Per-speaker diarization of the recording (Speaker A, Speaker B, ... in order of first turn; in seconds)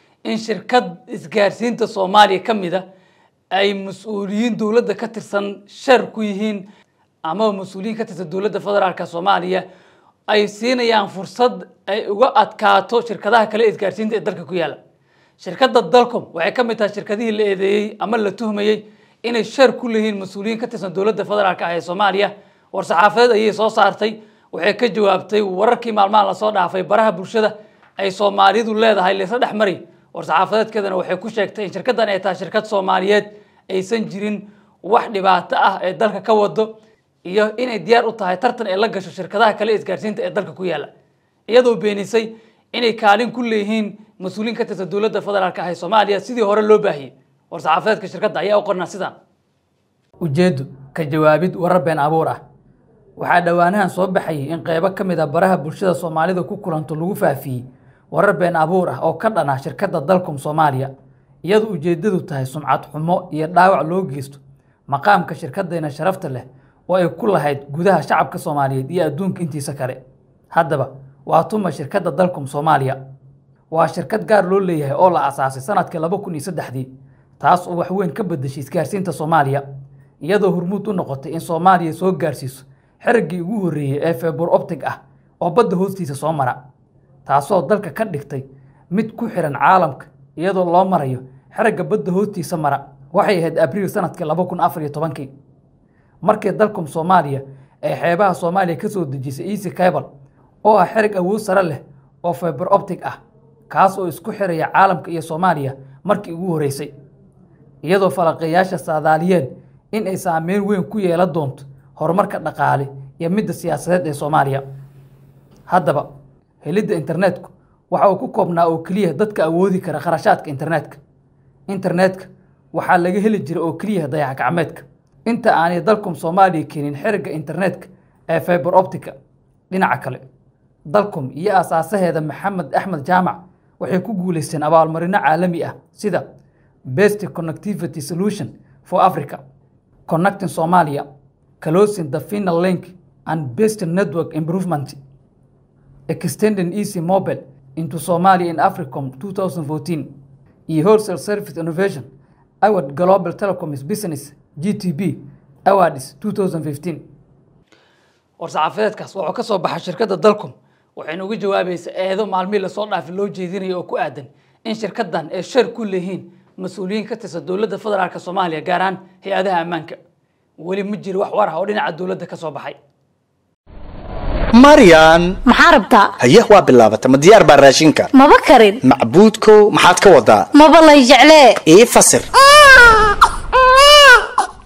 Speaker A: 0.2-2.8, 3.5-6.7, 7.2-9.6, 10.3-14.8, 15.4-36.7, 37.2-40.9, 41.5-49.1, 50.2-52.4, 53.2-60.9, 61.4-70.0, 70.5-73.0, 73.7-76.9, 77.4-79.6, 80.2-86.6, 87.2-95.3, 96.2-100.1, 100.6-103.2, 103.7-106.9, 107.8-114.6, 115.7-116.1, 116.6-121.0, 121.7-129.2, 129.7-130.2, 130.9-136.2, 136.9-139.4, 140.1-141.1, 141.6-145.0, 146.1-150.1, 150.7-152.1, 152.6-157.0, 158.4-170.0, 170.6-172.8
Speaker B: 174.5-175.4, 176.2-178.1, 178.8-180.5, 181.6-182.3
Speaker C: 175.4-176.1, 178.1-178.8, 180.5-181.6, 182.6-184.3